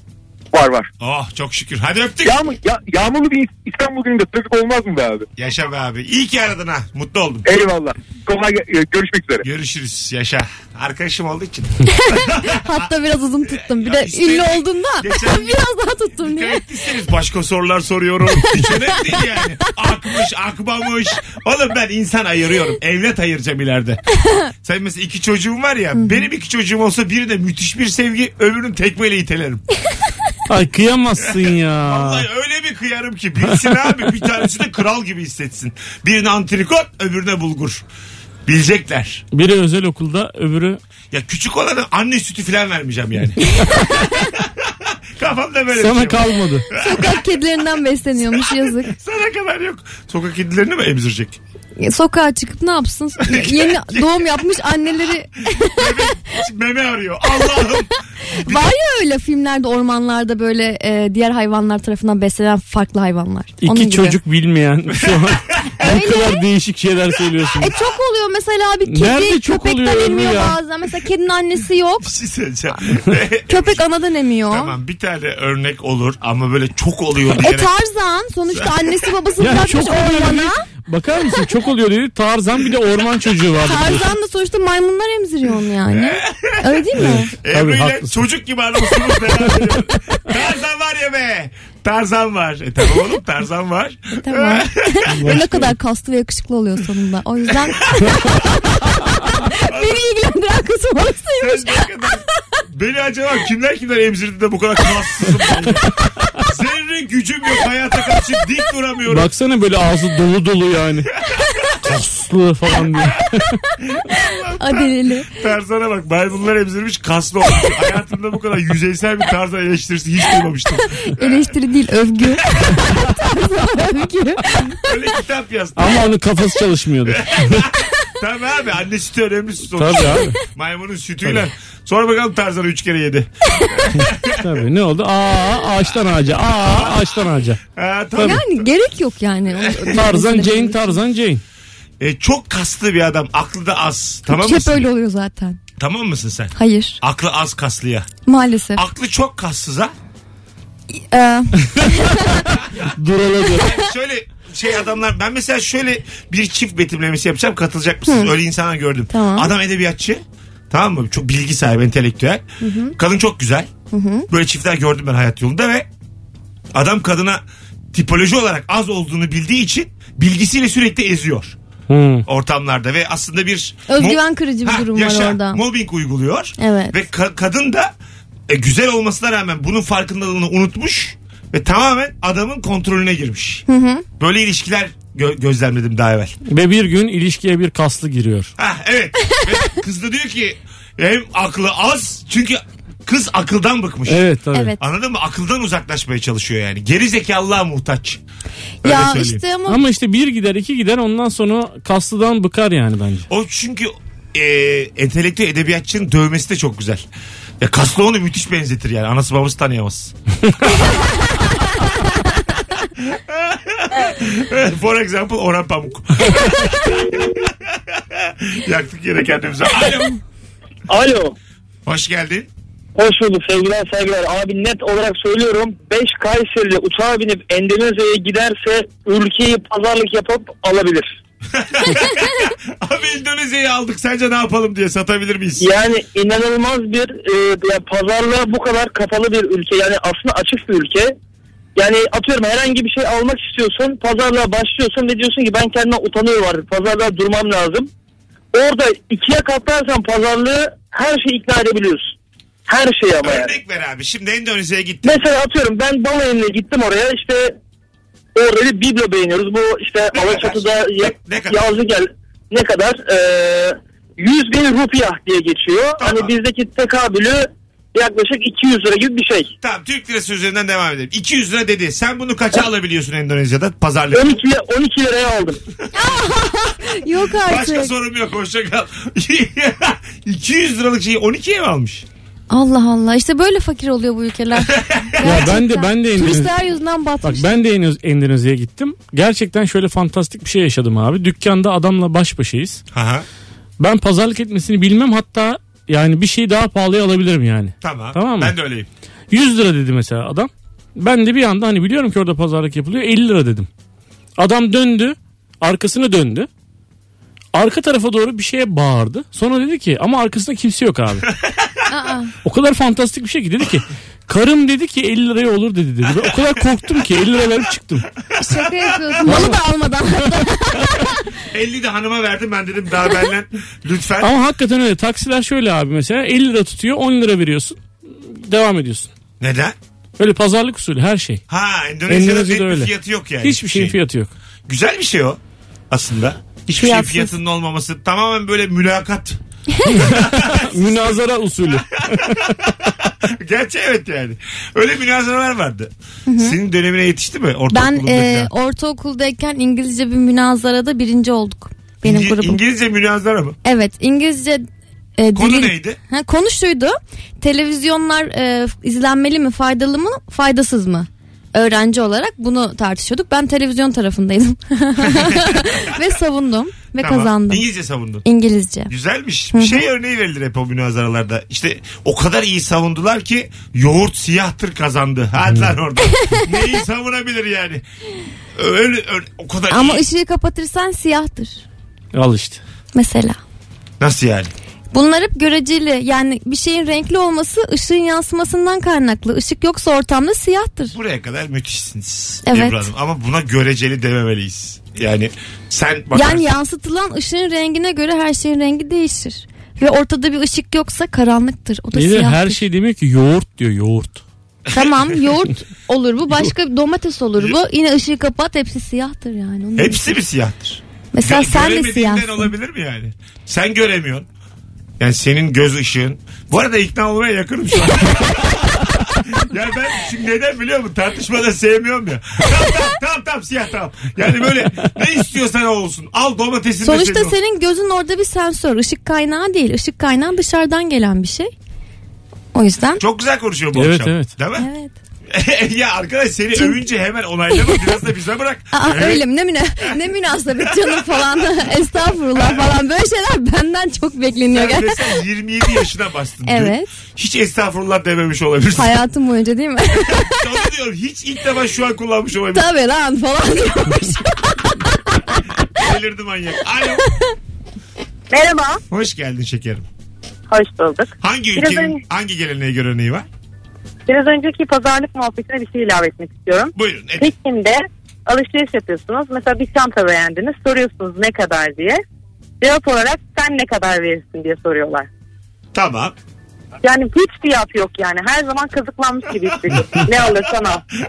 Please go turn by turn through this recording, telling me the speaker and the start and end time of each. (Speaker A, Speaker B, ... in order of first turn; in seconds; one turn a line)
Speaker A: 0.5-0.9
Speaker B: 1.0-2.4
Speaker A: 2.2-5.3
Speaker B: 5.4-7.5
Speaker A: 7.5-9.4
Speaker B: 9.4-12.9
Speaker C: 11.9-16.6
Speaker B: 13.4-24.0
Speaker C: 18.4-19.2
Speaker B: 24.6-29.6
Speaker C: 26.0-26.2
Speaker D: 30.5-32.2
Speaker B: 31.2-37.8
Speaker B: 38.5-39.2
Speaker D: 39.3-40.8
Speaker B: 41.1-47.3
Speaker D: 45.7-46.6
Speaker C: 46.8-48.9
Speaker B: 48.2-51.4
Speaker C: 51.8-56.2
Speaker B: 53.2-54.1
Speaker B: 55.7-58.7
Speaker C: 58.3-64.2
Speaker D: 63.6-67.7
Speaker B: 65.0-65.7
Speaker C: 65.8-66.4
Speaker C: 67.6-72.1
Speaker D: 68.9-70.6
Speaker B: 72.0-73.8
Speaker C: 73.5-74.8
Speaker B: 74.5-77.7
Speaker C: 77.4-80.6
Speaker B: 78.5-79.0
Speaker D: 79.4-84.1
Speaker C: 83.6-87.3
Speaker B: 85.9-95.5
Speaker D: 87.0-88.2
Speaker C: 94.2-98.5
Speaker D: 95.1-95.6
Speaker B: 97.5-98.7
Speaker C: 99.3-101.9
Speaker B: 99.6-100.0
Speaker B: 101.4-109.3
Speaker D: 109.1-111.1
Speaker B: 111.3-111.6
Speaker D: 111.8-113.6
Speaker B: 113.8-121.4
Speaker C: 114.6-115.3
Speaker C: 120.9-124.8
Speaker B: 122.5-122.9
Speaker B: 124.8-126.0
Speaker D: 125.8-127.7
Speaker B: 127.1-134.5
Speaker D: 129.8-130.4
Speaker D: 133.9-137.6
Speaker B: 136.5-137.1
Speaker B: 137.7-138.7
Speaker C: 138.2-141.0
Speaker B: 139.6-140.0
Speaker D: 139.9-141.4
Speaker B: 142.0-144.9
Speaker C: 144.3-145.6
Speaker B: 145.8-148.1
Speaker C: 146.6-147.0
Speaker C: 148.2-148.8
Speaker B: 148.7-149.9
Speaker C: 150.9-152.5
Speaker B: 152.6-152.9
Speaker D: 153.0-153.7
Speaker B: 153.5-162.4
Speaker C: 158.1-158.3
Speaker C: 159.1-159.5
Speaker C: 162.6-162.9
Speaker B: 162.9-163.7
Speaker C: 163.9-164.3
Speaker B: 164.3-165.9
Speaker B: 166.7-167.4
Speaker B: 167.9-171.6
Speaker D: 171.9-172.2
Speaker B: 172.2-177.9
Speaker C: 173.9-175.6
Speaker C: 176.6-176.9
Speaker B: 178.5-183.7
Speaker C: 183.7-184.0
Speaker B: 184.2-186.3
Speaker D: 186.4-188.5
Speaker B: 188.6-194.2
Speaker D: 194.1-194.7
Speaker B: 194.8-198.2
Speaker B: 198.8-199.4
Speaker C: 198.8-199.8
Speaker D: 199.7-203.2
Speaker B: 203.3-207.0
Speaker B: 207.6-210.1
Speaker B: 213.0-220.2
Speaker E: 220.9-221.3
Speaker B: 221.8-222.5
Speaker E: 222.9-231.1
Speaker B: 231.5-235.7
Speaker E: 235.6-241.1
Speaker E: 241.8-247.9
Speaker E: 248.5-252.1
Speaker E: 252.7-253.5
Speaker B: 253.2-255.2
Speaker E: 255.0-257.5
Speaker E: 258.3-269.5
Speaker B: 260.1-261.6
Speaker B: 266.0-266.3
Speaker B: 269.6-274.3
Speaker E: 274.1-275.6
Speaker C: 275.9-277.9
Speaker B: 277.3-282.0
Speaker C: 282.5-287.5
Speaker B: 284.6-285.4
Speaker D: 285.2-286.5
Speaker D: 287.2-292.8
Speaker B: 292.9-293.2
Speaker D: 293.8-298.5
Speaker B: 297.8-298.9
Speaker D: 299.3-303.7
Speaker D: 304.4-306.5
Speaker D: 307.5-311.3
Speaker B: 311.3-311.8
Speaker C: 311.9-312.3
Speaker D: 312.4-318.1
Speaker B: 316.1-316.7
Speaker B: 318.3-319.4
Speaker C: 318.4-321.4
Speaker D: 319.2-319.6
Speaker B: 321.4-324.3
Speaker D: 324.2-329.1
Speaker B: 329.4-329.8
Speaker D: 330.2-331.4
Speaker B: 331.5-334.0
Speaker D: 332.1-334.3
Speaker B: 334.7-339.4
Speaker C: 336.8-337.3
Speaker D: 339.9-342.6
Speaker B: 340.0-341.2
Speaker B: 342.0-348.5
Speaker C: 346.3-346.6
Speaker C: 347.7-352.6
Speaker B: 352.0-353.6
Speaker C: 353.6-354.6
Speaker C: 355.2-367.6
Speaker B: 355.3-356.0
Speaker B: 365.0-365.8
Speaker B: 367.0-368.2
Speaker C: 368.2-368.9
Speaker B: 368.9-377.8
Speaker C: 369.5-369.8
Speaker C: 376.2-376.5
Speaker B: 378.5-380.0
Speaker C: 379.7-381.6
Speaker D: 382.1-382.6
Speaker C: 382.9-383.4
Speaker B: 384.0-384.5
Speaker C: 384.9-390.9
Speaker B: 390.9-396.5
Speaker C: 392.4-392.9
Speaker C: 396.1-402.6
Speaker D: 401.9-404.2
Speaker B: 404.7-405.1
Speaker C: 404.7-410.2
Speaker B: 409.8-414.3
Speaker C: 411.1-412.5
Speaker B: 415.0-427.3
Speaker C: 426.8-431.5
Speaker C: 432.5-433.0
Speaker B: 433.0-434.7
Speaker D: 433.7-434.3
Speaker C: 434.6-434.9
Speaker B: 435.3-439.2
Speaker C: 438.7-445.0
Speaker B: 440.6-441.7
Speaker B: 442.3-442.7
Speaker B: 444.5-449.0
Speaker C: 446.4-446.9
Speaker C: 448.7-450.5
Speaker B: 450.1-452.7
Speaker C: 452.5-455.4
Speaker B: 455.7-457.0
Speaker F: 458.3-458.8
Speaker B: 458.9-459.9
Speaker F: 460.5-462.0
Speaker B: 461.2-463.2
Speaker F: 464.1-472.0
Speaker B: 466.7-467.3
Speaker F: 472.6-475.1
Speaker B: 475.7-476.1
Speaker F: 476.8-480.8
Speaker B: 479.7-480.0